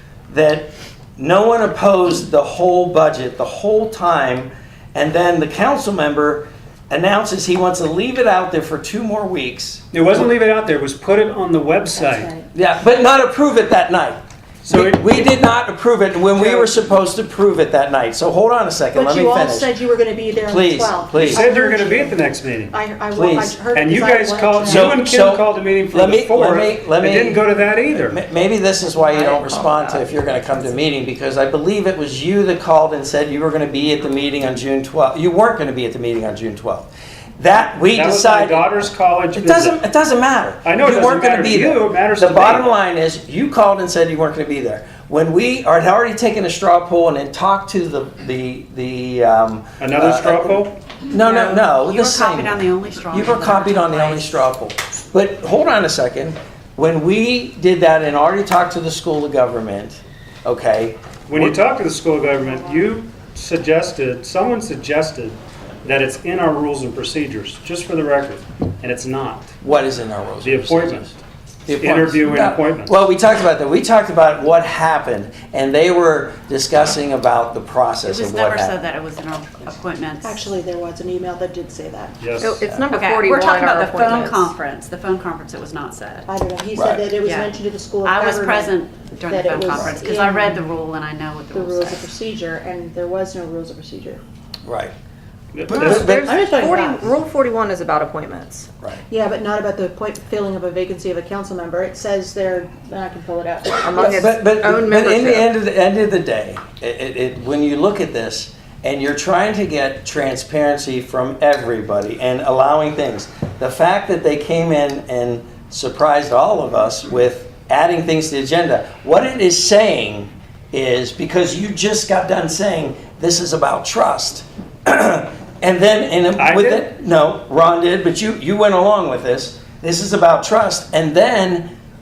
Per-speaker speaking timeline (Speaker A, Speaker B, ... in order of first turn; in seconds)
Speaker A: 0.3-9.9, 12.5-19.7, 20.4-21.5, 23.1-23.6, 24.6-38.8, 39.3-61.6, 69.6-71.2, 71.7-78.7, 86.8-87.1, 94.6-94.9, 95.7-96.3, 103.9-131.7
Speaker B: 9.9-12.3, 14.6-15.3, 16.3-16.8, 21.3-22.8, 23.7-28.2, 37.9-39.8, 40.6-42.7, 49.8-50.7, 61.3-69.5, 70.4-71.1, 71.8-73.0, 82.2-82.8, 95.5-96.0, 126.4-126.9
Speaker C: 11.9-12.5, 18.9-25.0, 80.2-82.2, 86.3-90.6, 91.5-94.2, 95.9-97.0, 99.1-103.9
Speaker D: 51.1-54.4, 78.0-80.4, 82.9-86.3, 87.2-87.5, 88.0-92.1
Speaker E: 82.4-84.5, 95.7-98.7, 103.8-105.5